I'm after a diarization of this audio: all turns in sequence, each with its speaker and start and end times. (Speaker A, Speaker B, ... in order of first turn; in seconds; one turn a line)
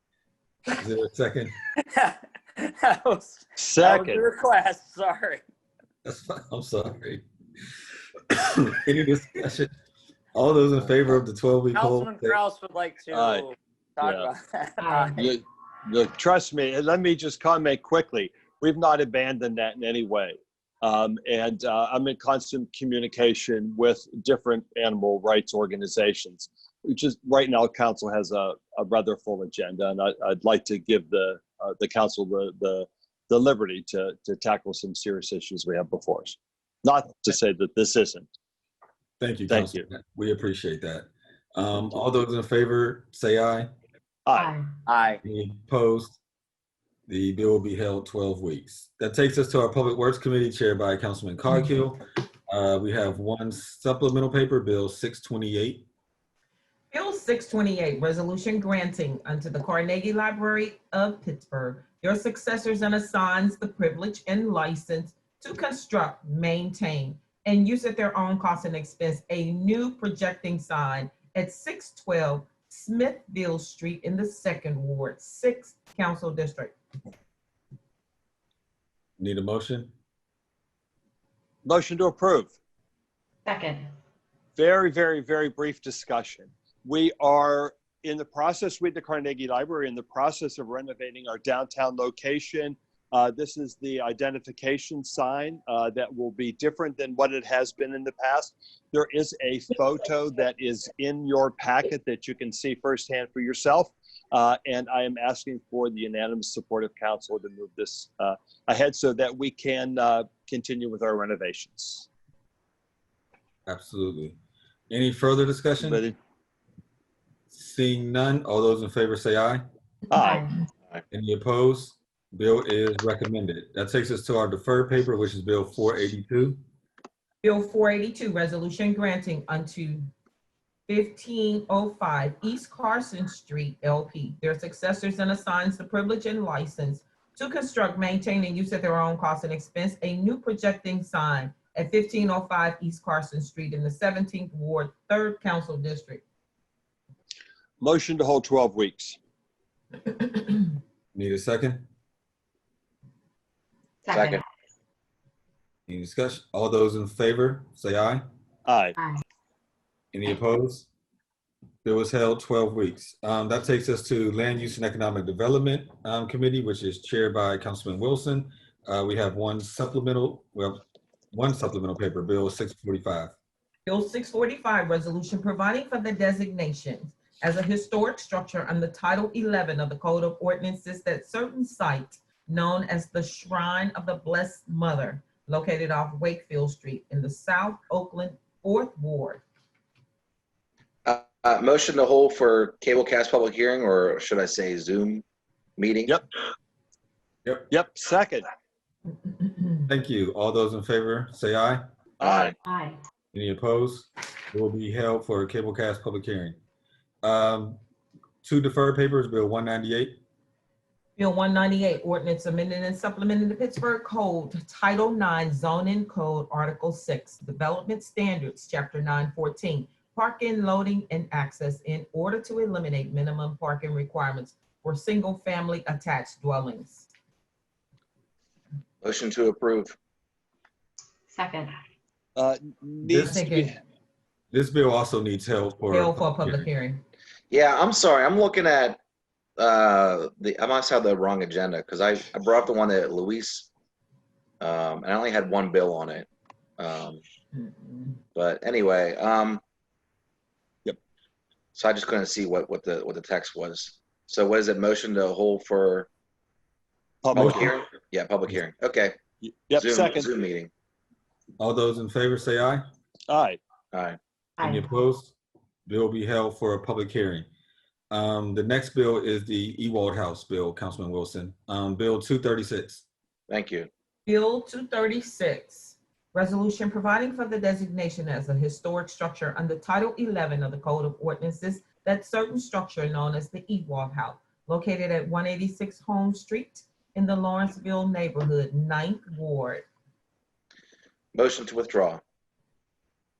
Speaker A: 0.7-1.5
Speaker B: 1.9-5.4
Speaker C: 3.5-4.3
Speaker A: 6.0-7.2
Speaker A: 8.3-9.7
Speaker A: 10.3-12.4
Speaker B: 11.7-15.3
Speaker C: 13.1-13.5
Speaker C: 14.0-14.3
Speaker D: 14.8-15.2
Speaker C: 15.2-38.2
Speaker A: 39.2-43.7
Speaker C: 39.5-39.8
Speaker C: 44.2-44.5
Speaker D: 44.3-44.7
Speaker B: 44.9-45.2
Speaker A: 45.2-46.2
Speaker A: 47.1-55.8
Speaker E: 56.9-76.7
Speaker A: 79.2-79.9
Speaker C: 81.6-82.5
Speaker D: 83.5-83.9
Speaker C: 84.5-112.1
Speaker A: 113.7-114.4
Speaker A: 114.9-116.0
Speaker C: 115.8-116.2
Speaker A: 117.5-119.6
Speaker C: 120.1-120.5
Speaker D: 120.1-120.5
Speaker A: 121.1-126.6
Speaker E: 127.4-130.1
Speaker E: 130.9-146.2
Speaker C: 147.8-149.2
Speaker A: 151.1-151.8
Speaker D: 154.0-154.4
Speaker F: 154.1-154.4
Speaker A: 155.9-158.2
Speaker C: 158.7-159.0
Speaker D: 159.0-159.2
Speaker A: 160.1-160.9
Speaker A: 161.8-173.3
Speaker E: 173.8-189.4
Speaker F: 191.1-195.2
Speaker F: 195.8-196.1
Speaker C: 197.7-198.5
Speaker E: 199.3-199.9
Speaker A: 199.9-201.8
Speaker C: 202.2-202.5
Speaker F: 202.2-202.5
Speaker D: 202.6-203.0
Speaker A: 203.3-206.6
Speaker A: 207.2-207.8
Speaker A: 208.4-210.2
Speaker E: 211.2-227.1
Speaker F: 229.0-229.9
Speaker D: 231.3-231.7
Speaker C: 232.3-233.8
Speaker A: 233.0-233.4
Speaker E: 233.2-233.8
Speaker A: 234.5-236.7
Speaker E: 235.9-237.0
Speaker F: 237.5-239.0
Speaker F: 239.6-243.7
Speaker F: 244.6-246.3
Speaker F: 246.8-247.2
Speaker E: 247.5-248.2
Speaker F: 248.3-249.6
Speaker F: 251.7-256.1
Speaker C: 257.2-257.8
Speaker F: 257.3-259.2
Speaker A: 257.4-257.7
Speaker C: 259.4-260.3
Speaker F: 259.7-260.7
Speaker A: 261.6-262.8
Speaker C: 263.3-263.6
Speaker F: 263.9-264.2
Speaker D: 264.6-264.9
Speaker A: 264.6-265.3
Speaker A: 265.9-267.5
Speaker A: 268.1-273.0
Speaker F: 273.5-273.9
Speaker E: 274.2-289.9
Speaker F: 291.3-292.2